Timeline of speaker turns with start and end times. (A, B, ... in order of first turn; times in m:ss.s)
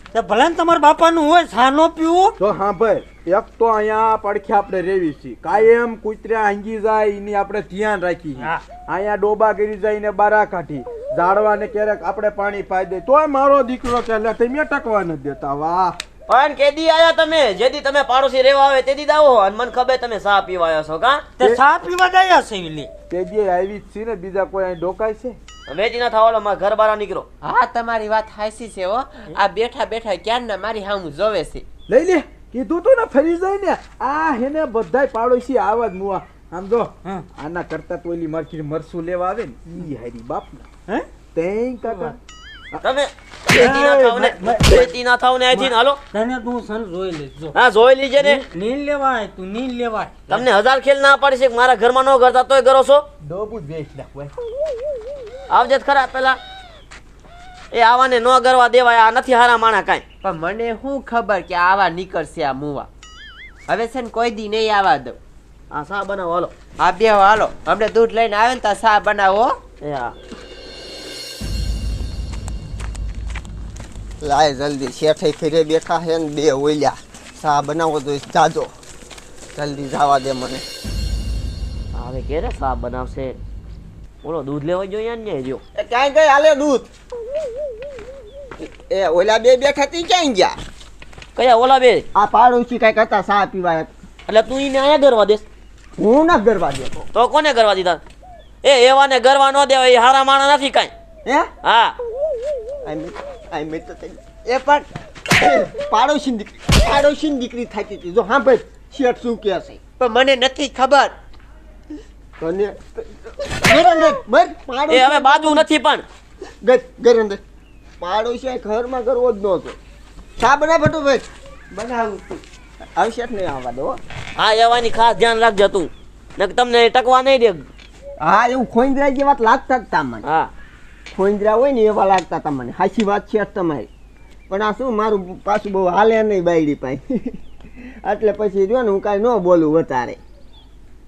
0:00.1-0:02.4 A
0:02.4-0:16.0 B
0:16.3-0:21.3 C
0:21.4-0:22.9 A
0:23.1-0:25.4 B
0:25.7-0:27.3 C
0:27.4-0:31.6 D
0:31.9-0:40.7 B
0:41.3-0:42.2 B
0:41.9-0:42.1 A
0:42.8-0:46.0 C
0:43.6-0:44.9 A
0:43.6-0:44.3 B
0:46.1-0:47.6 A
0:47.5-0:48.4 C
0:48.2-0:50.5 A
0:50.3-0:53.0 C
0:53.2-0:54.3 B
0:55.5-0:56.4 C
0:57.7-1:00.0 C
1:00.2-1:02.9 D
1:03.7-1:05.2 D
1:05.7-1:06.5 C
1:06.8-1:09.6 D
1:09.8-1:10.1 C
1:14.2-1:18.7 E
1:19.6-1:20.6 E
1:21.9-1:23.4 C
1:24.2-1:25.6 C
1:25.8-1:26.9 E
1:28.6-1:30.6 E
1:31.4-1:32.1 C
1:32.1-1:33.9 E
1:34.3-1:35.4 C
1:36.0-1:37.1 E
1:37.1-1:38.0 C
1:38.6-1:40.9 C
1:41.2-1:41.5 E
1:41.6-1:42.0 C
1:42.8-1:44.2 E
1:44.4-1:44.9 D
1:45.4-1:49.8 E
1:50.0-1:51.1 D
1:52.4-1:55.7 E
1:54.9-1:56.0 C
1:56.6-1:57.4 E
1:58.0-1:59.8 E
2:00.4-2:02.4 E
2:03.0-2:04.0 E
2:04.4-2:07.6 C
2:08.2-2:10.2 E
2:10.2-2:10.5 C
2:11.1-2:13.9 E
2:14.5-2:17.3 E
2:18.0-2:20.2 E